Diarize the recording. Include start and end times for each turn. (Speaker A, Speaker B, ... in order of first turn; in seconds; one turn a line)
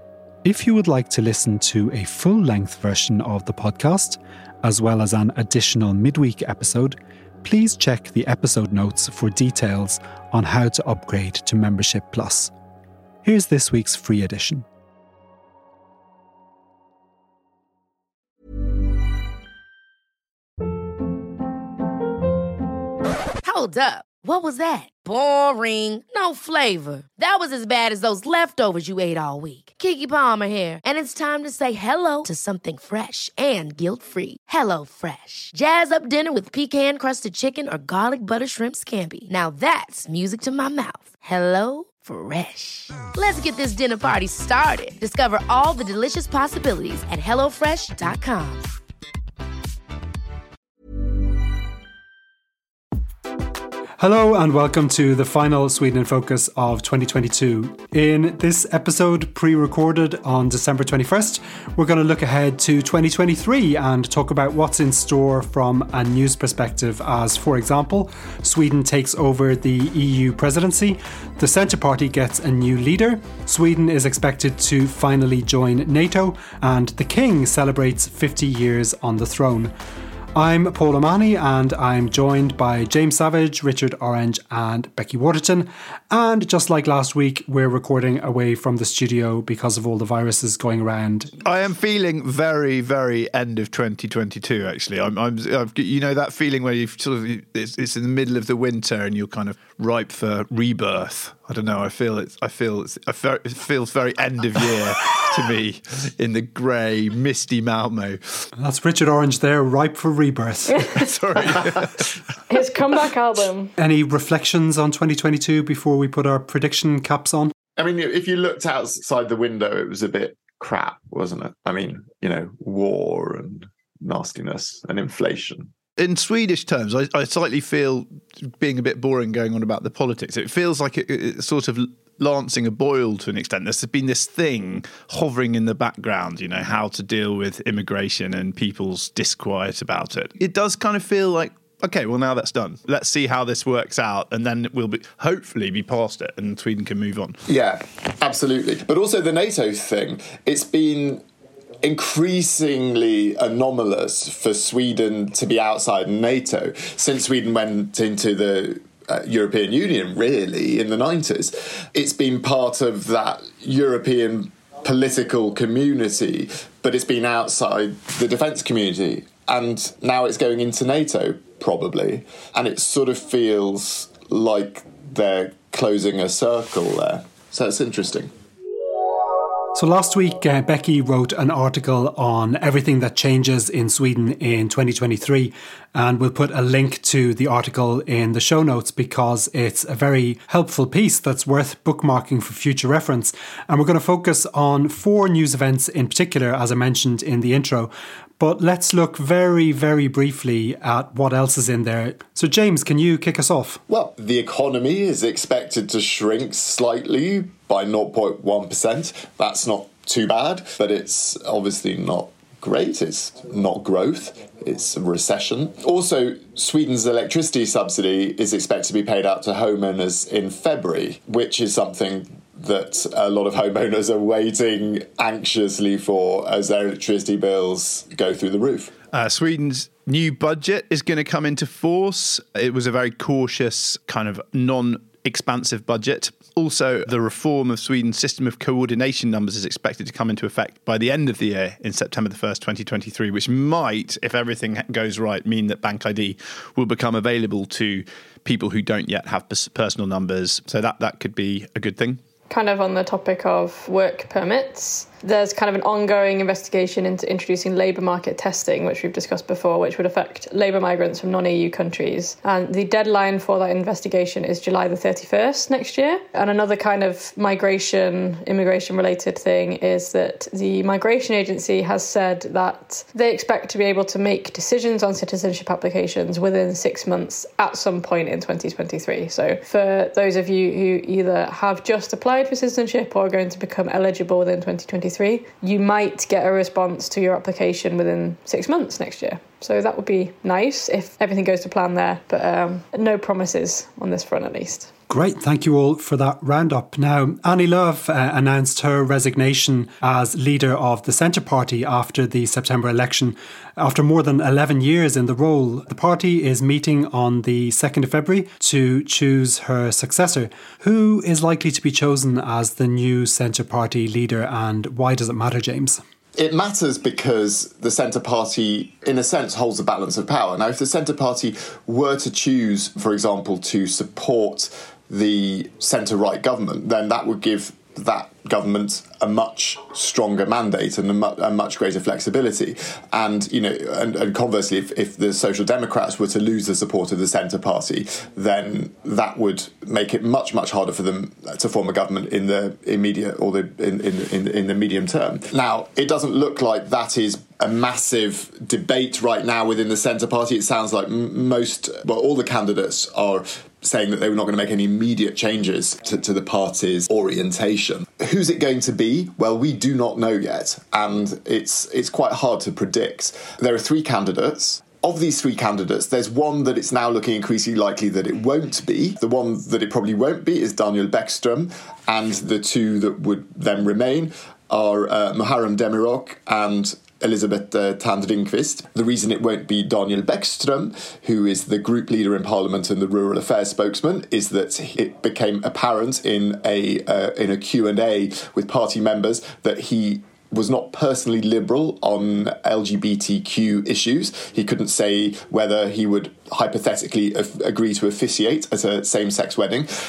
Speaker A: 0.5-12.5
Speaker A: 13.2-14.7
Speaker B: 23.4-48.6
Speaker A: 54.0-79.7
Speaker A: 80.3-91.3
Speaker C: 91.5-108.2
Speaker A: 108.6-110.9
Speaker D: 110.7-111.0
Speaker C: 111.0-112.2
Speaker D: 112.5-113.7
Speaker A: 113.8-117.5
Speaker E: 117.8-125.7
Speaker C: 126.0-147.4
Speaker E: 147.5-151.2
Speaker E: 151.8-178.3
Speaker A: 179.7-203.8
Speaker E: 203.9-228.9
Speaker C: 229.1-252.2
Speaker D: 252.5-294.9
Speaker A: 295.1-316.0
Speaker E: 316.4-399.9